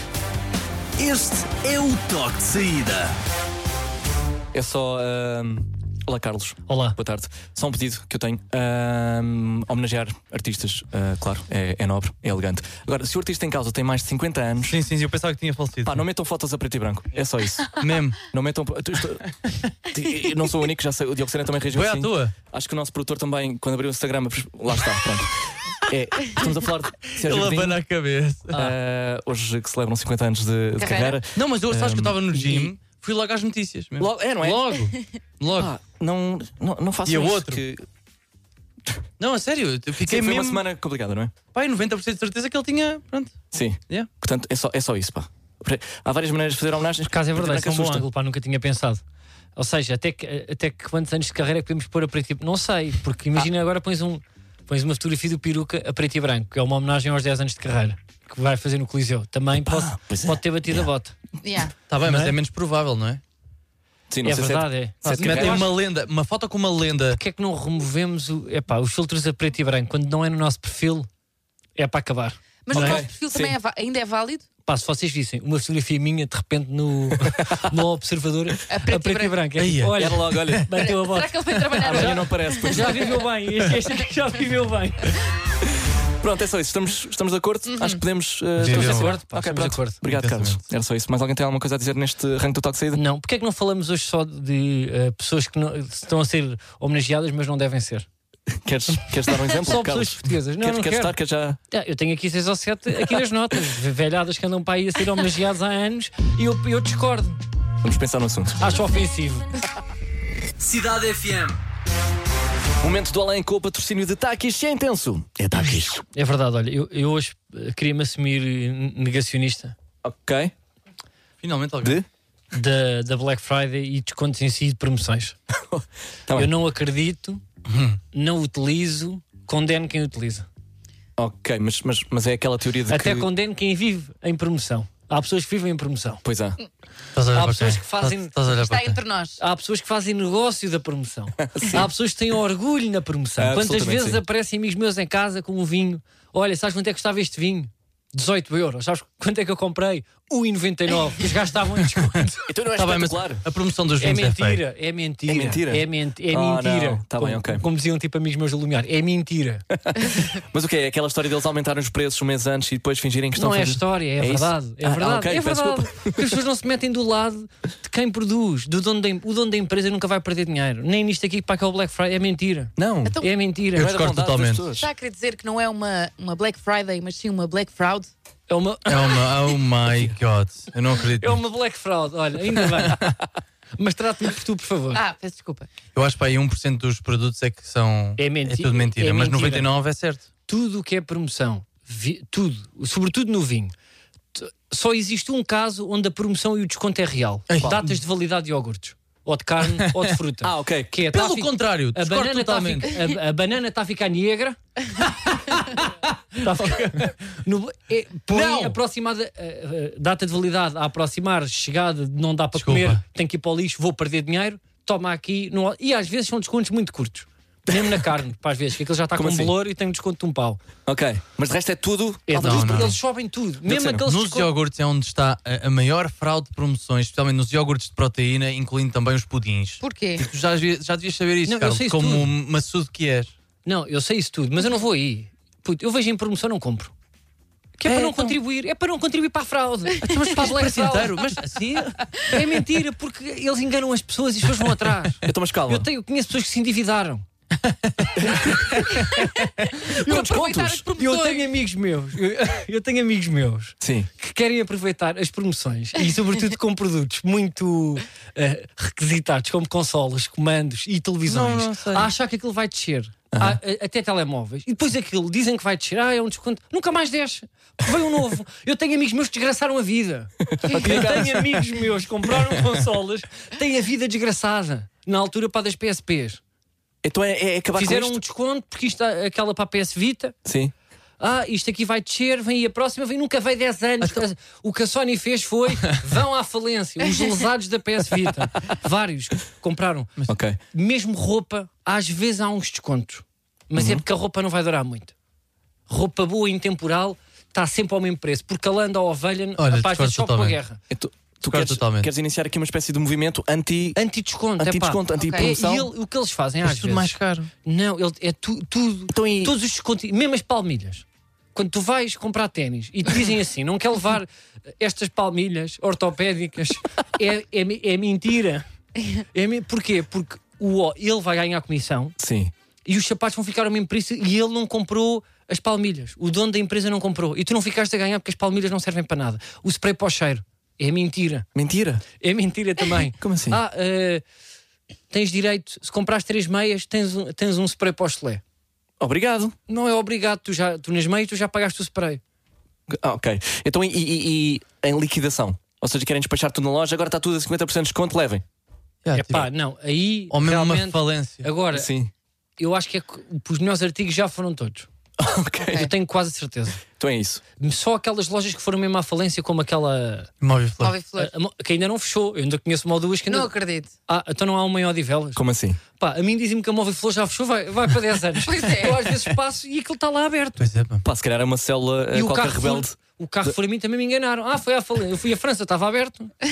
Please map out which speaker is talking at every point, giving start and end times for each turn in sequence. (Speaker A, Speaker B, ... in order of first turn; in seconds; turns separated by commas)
Speaker A: 1.0-3.1, Speaker B: 4.5-14.8, Speaker C: 6.7-7.0, Speaker D: 14.7-16.0, Speaker B: 15.8-19.3, Speaker D: 17.7-18.2, Speaker B: 19.9-27.8, Speaker D: 21.7-22.3, Speaker D: 27.2-28.7, Speaker B: 28.5-32.7, Speaker E: 30.8-31.2, Speaker D: 31.3-35.7, Speaker B: 34.0-34.7, Speaker B: 35.5-37.8, Speaker D: 37.0-37.6, Speaker D: 39.2-40.6, Speaker B: 40.0-41.3, Speaker D: 41.5-43.3, Speaker B: 43.5-48.0, Speaker C: 47.1-49.0, Speaker C: 49.5-61.1, Speaker B: 59.5-60.9, Speaker E: 61.4-61.7, Speaker D: 61.9-63.2, Speaker C: 62.0-62.4, Speaker B: 64.1-65.7, Speaker C: 64.2-65.7, Speaker D: 65.1-67.2, Speaker C: 67.1-71.1, Speaker C: 71.8-73.1, Speaker E: 72.6-74.5, Speaker B: 72.7-73.5, Speaker C: 74.7-85.2, Speaker B: 77.2-77.7, Speaker E: 78.7-79.4, Speaker D: 79.6-80.6, Speaker B: 80.0-80.7, Speaker E: 80.8-83.1, Speaker B: 81.8-83.1, Speaker B: 86.2-93.0, Speaker E: 87.7-88.0, Speaker D: 88.6-89.1, Speaker C: 88.6-90.0, Speaker D: 90.0-90.6, Speaker C: 92.9-98.0, Speaker B: 98.5-101.6, Speaker C: 99.5-101.1, Speaker C: 101.7-107.4, Speaker B: 107.8-108.7, Speaker C: 108.6-109.5, Speaker A: 110.6-111.5, Speaker B: 112.8-116.0, Speaker C: 116.1-119.7, Speaker B: 120.0-120.5, Speaker D: 121.4-122.0, Speaker C: 122.5-125.3, Speaker B: 125.7-126.5, Speaker C: 126.3-127.4, Speaker D: 127.7-128.0, Speaker C: 128.1-130.5, Speaker B: 131.2-133.3, Speaker C: 132.9-136.2, Speaker B: 136.2-136.6, Speaker D: 137.1-139.0, Speaker C: 137.3-138.3, Speaker E: 138.5-139.4, Speaker C: 139.4-152.4, Speaker B: 141.4-141.9, Speaker B: 143.4-144.2, Speaker B: 152.5-153.4, Speaker D: 152.7-154.6, Speaker C: 154.0-159.7, Speaker B: 155.3-157.6, Speaker B: 159.8-166.3, Speaker C: 163.3-173.9, Speaker B: 172.8-173.2, Speaker D: 173.7-174.7, Speaker B: 173.8-174.9, Speaker E: 174.7-178.1, Speaker C: 178.5-179.2, Speaker D: 178.8-181.4, Speaker C: 181.2-183.2, Speaker C: 183.8-185.0, Speaker E: 184.9-185.7, Speaker D: 185.9-190.2, Speaker C: 188.2-189.7, Speaker C: 190.5-193.7, Speaker C: 194.3-204.6, Speaker D: 197.5-197.9, Speaker B: 200.4-201.0, Speaker D: 201.1-202.9, Speaker D: 205.0-205.8, Speaker C: 206.4-220.6, Speaker D: 206.6-207.0, Speaker B: 208.3-208.7, Speaker D: 212.5-213.0, Speaker B: 217.7-218.1, Speaker B: 219.1-219.5, Speaker B: 220.8-223.0, Speaker C: 222.3-224.5, Speaker D: 222.3-223.0, Speaker D: 223.7-233.3, Speaker E: 229.8-230.2, Speaker C: 231.4-232.3, Speaker C: 233.6-236.9, Speaker C: 237.8-241.2, Speaker D: 237.8-238.3, Speaker D: 240.1-241.9, Speaker C: 242.3-247.2, Speaker B: 245.2-245.9, Speaker D: 247.6-249.5, Speaker E: 249.0-251.4, Speaker B: 249.8-250.9, Speaker C: 250.9-276.4, Speaker B: 253.8-254.1, Speaker D: 261.2-262.1, Speaker B: 263.3-263.6, Speaker B: 270.4-271.5, Speaker B: 277.0-278.2, Speaker C: 277.7-280.4, Speaker B: 280.4-280.7, Speaker C: 281.2-290.1, Speaker B: 290.3-290.6, Speaker C: 290.7-295.1, Speaker B: 293.7-294.0, Speaker C: 295.9-300.8, Speaker D: 299.6-300.6, Speaker B: 300.9-304.0, Speaker D: 301.4-302.1, Speaker C: 303.9-322.1, Speaker B: 304.6-305.9, Speaker E: 305.2-305.5, Speaker D: 306.6-307.5, Speaker B: 309.1-309.6, Speaker B: 322.2-322.5, Speaker C: 322.8-331.5, Speaker B: 331.5-332.0, Speaker C: 332.2-334.2, Speaker B: 333.2-333.6, Speaker C: 335.1-338.4, Speaker B: 339.0-339.6, Speaker C: 339.7-342.2, Speaker B: 342.9-348.4, Speaker D: 349.0-349.5, Speaker C: 349.1-351.9, Speaker D: 350.3-351.5, Speaker B: 351.7-352.1, Speaker C: 352.6-354.9, Speaker B: 355.2-355.9, Speaker E: 355.6-355.9, Speaker C: 355.7-356.8, Speaker B: 357.0-357.4, Speaker C: 357.6-360.3, Speaker D: 360.4-360.9, Speaker E: 360.8-361.3, Speaker C: 361.1-363.5, Speaker E: 363.3-363.9, Speaker C: 364.1-365.4, Speaker B: 365.3-365.8, Speaker C: 365.9-370.6, Speaker E: 368.4-369.0, Speaker D: 370.6-371.0, Speaker B: 371.0-373.5, Speaker C: 372.1-376.3